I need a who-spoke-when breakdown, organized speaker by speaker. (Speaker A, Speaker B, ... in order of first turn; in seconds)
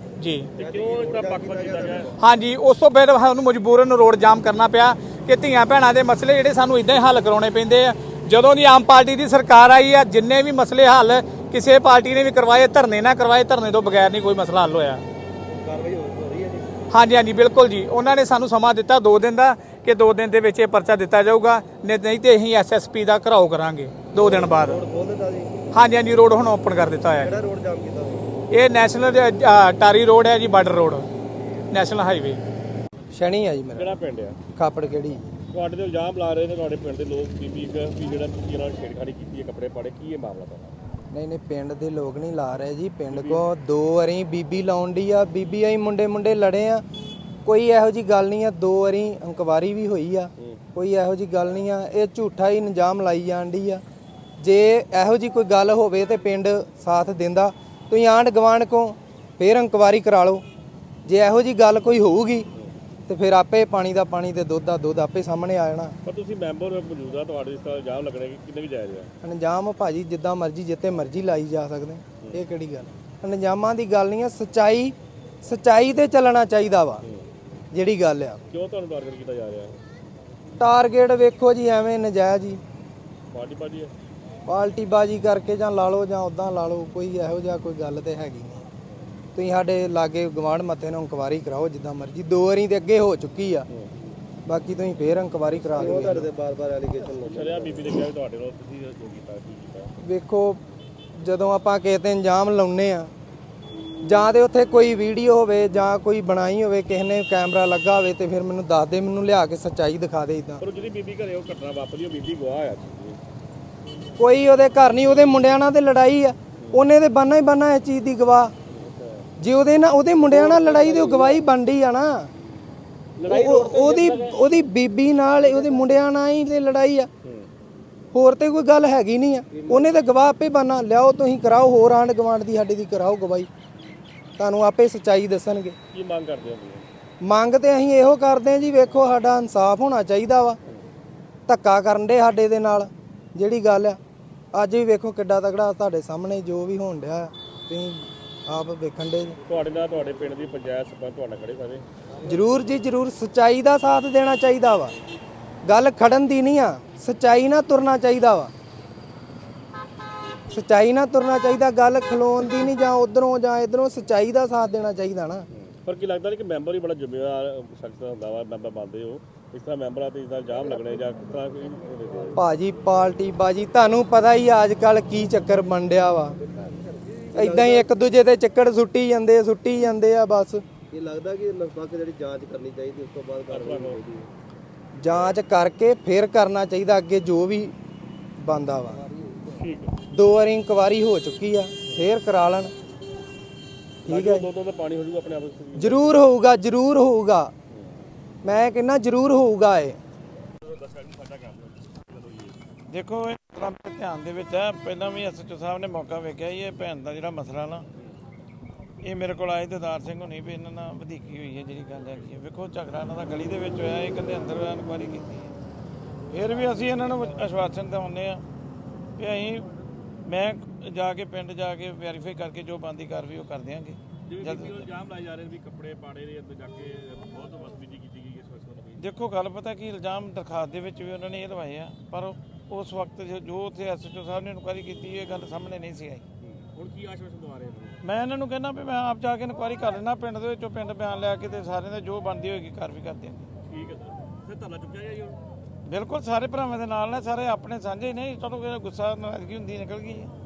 Speaker A: 0.2-0.5, 2.2-15.0, 16.9-24.8, 25.7-27.3, 28.5-31.1, 31.7-32.4
Speaker B: 0.5-2.1, 33.8-34.4, 35.5-40.7, 43.1-43.4, 66.0-69.1, 78.5-79.8, 83.3-83.9, 97.0-99.9, 110.6-113.2, 116.6-116.8, 118.7-119.2, 120.2-121.4, 123.2-124.4, 125.6-125.8, 129.5-129.9, 135.9-136.8, 149.5-151.8, 165.5-172.4, 183.5-184.0, 189.5-189.9, 194.0-196.2, 197.7-198.0, 200.6-202.6, 211.9-212.3, 224.2-229.1, 236.4-238.0, 243.6-245.4
Speaker C: 0.6-2.1, 15.5-16.8, 24.1-25.6, 27.2-28.3, 95.6-97.9, 177.3-177.9, 180.9-184.3
Speaker D: 33.1-33.9, 34.5-35.2, 41.1-46.8, 47.4-53.8, 54.4-60.4, 61.0-62.5, 63.1-65.9, 69.2-77.0, 77.7-78.4, 80.6-82.6, 84.5-88.6, 89.3-93.7, 94.5-96.3, 100.0-100.6, 101.2-103.1, 104.0-110.6, 114.2-118.5, 119.4-122.3, 123.2-127.1, 128.1-133.5, 134.4-135.8, 137.2-140.6, 141.5-144.0, 144.5-149.4, 152.2-154.9, 155.6-158.5, 160.5-165.4, 172.3-176.3, 177.3-180.6, 185.0-187.7, 188.4-189.0, 190.1-192.7, 194.1-194.5, 195.8-197.5, 198.4-200.0
Speaker E: 202.9-207.9, 209.0-215.5, 216.3-218.4, 219.2-219.7, 220.2-224.9, 229.0-236.2, 238.0-243.5, 245.8-250.3